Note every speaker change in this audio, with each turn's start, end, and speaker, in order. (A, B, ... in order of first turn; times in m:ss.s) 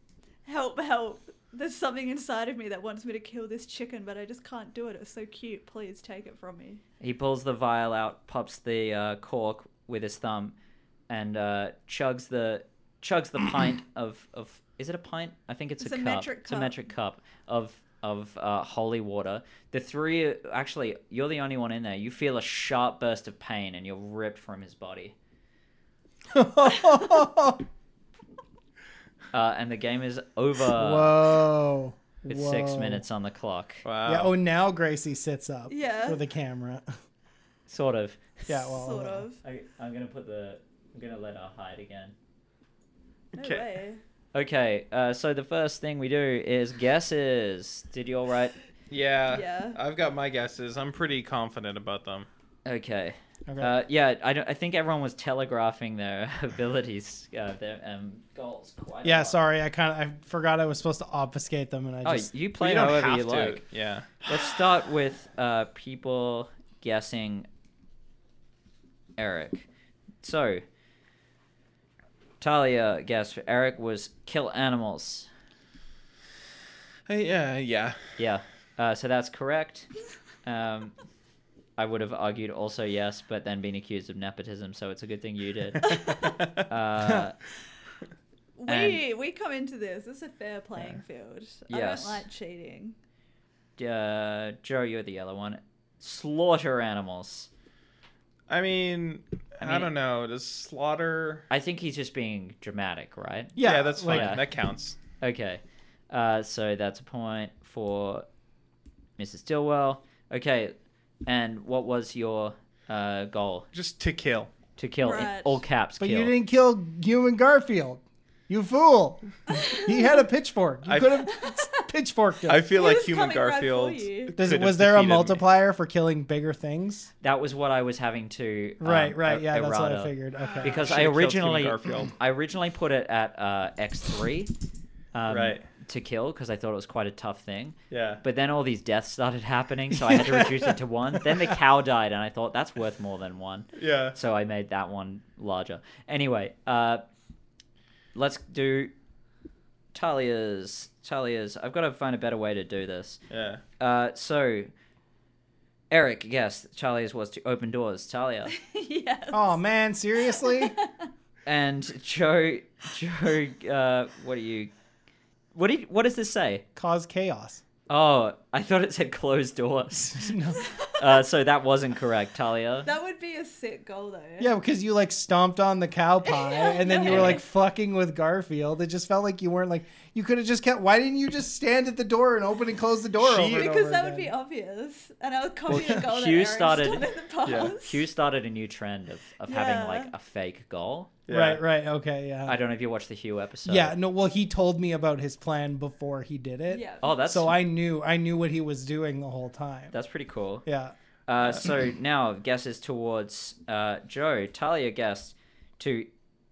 0:00.4-0:06.8 A
0:07.0-0:10.5 B
0:11.1-0:25.1 B
0:15.8-0:16.8 A
0:26.3-0:27.6 C
0:29.3-0:31.2 B
0:30.7-0:33.0 C
0:32.3-0:33.8 B
0:33.8-0:34.3 D
0:34.0-0:36.8 C
0:35.7-0:36.2 A
0:37.7-0:38.3 B
0:38.5-0:39.2 C
0:38.5-0:39.4 A
0:39.4-0:42.1 B
0:43.3-0:44.0 A
0:43.4-0:43.6 D
0:44.3-0:48.6 B
0:48.9-0:52.3 D
0:49.3-0:49.8 A
0:52.6-0:59.4 B
0:53.5-0:53.7 C
0:59.0-1:02.3 C
1:02.0-1:03.6 B
1:02.6-1:04.3 D
1:04.2-1:07.5 B
1:09.2-1:09.7 B
1:10.2-1:10.6 B
1:12.4-1:15.3 B
1:17.1-1:18.0 D
1:18.2-1:19.9 B
1:20.4-1:20.9 B
1:21.8-1:25.9 B
1:25.9-1:26.3 A
1:25.9-1:26.6 D
1:26.7-1:27.4 B
1:28.6-1:33.0 A
1:28.7-1:29.0 B
1:31.7-1:32.2 B
1:33.8-1:37.5 B
1:38.5-1:41.5 D
1:39.6-1:39.9 B
1:41.5-1:44.4 B
1:43.6-1:44.4 C
1:43.6-1:45.0 D
1:45.2-1:48.2 B
1:49.2-1:50.7 B
1:51.2-1:53.7 B
1:53.7-1:54.5 D
1:54.8-1:56.3 B
1:55.0-1:55.6 A
1:56.0-2:02.7 C
1:59.5-2:00.2 A
2:00.8-2:01.3 D
2:01.3-2:01.8 A
2:02.5-2:05.4 D
2:02.6-2:04.3 A
2:04.4-2:07.1 C
2:07.2-2:14.5 B
2:08.8-2:10.9 C
2:10.4-2:10.8 A
2:10.6-2:12.1 D
2:15.1-2:27.0 B
2:15.3-2:15.6 D
2:17.9-2:18.2 D
2:23.7-2:24.2 D
2:28.1-2:28.9 B
2:29.9-2:33.2 B
2:33.3-2:33.6 D
2:33.8-2:34.7 B
2:35.9-2:38.5 B
2:38.5-2:39.6 A
2:39.3-2:40.7 C
2:40.4-2:41.1 A
2:41.4-2:44.7 B
2:45.5-2:46.6 B
2:46.8-2:47.6 C
2:47.9-2:50.4 B
2:50.1-2:50.6 C
2:50.9-2:52.9 B
2:52.8-2:54.5 A
2:54.4-3:04.3 C
2:56.2-2:57.4 A
2:57.1-2:57.3 B
3:03.2-3:03.7 D
3:03.5-3:08.0 A
3:05.7-3:11.1 B
3:05.7-3:06.0 C
3:07.4-3:07.7 D
3:09.5-3:10.1 A
3:11.3-3:11.6 D
3:11.3-3:12.6 C
3:12.4-3:13.9 B
3:13.6-3:19.9 C
3:16.7-3:17.1 A
3:17.0-3:17.6 B
3:19.9-3:20.6 B
3:20.6-3:20.9 C
3:21.3-3:26.1 B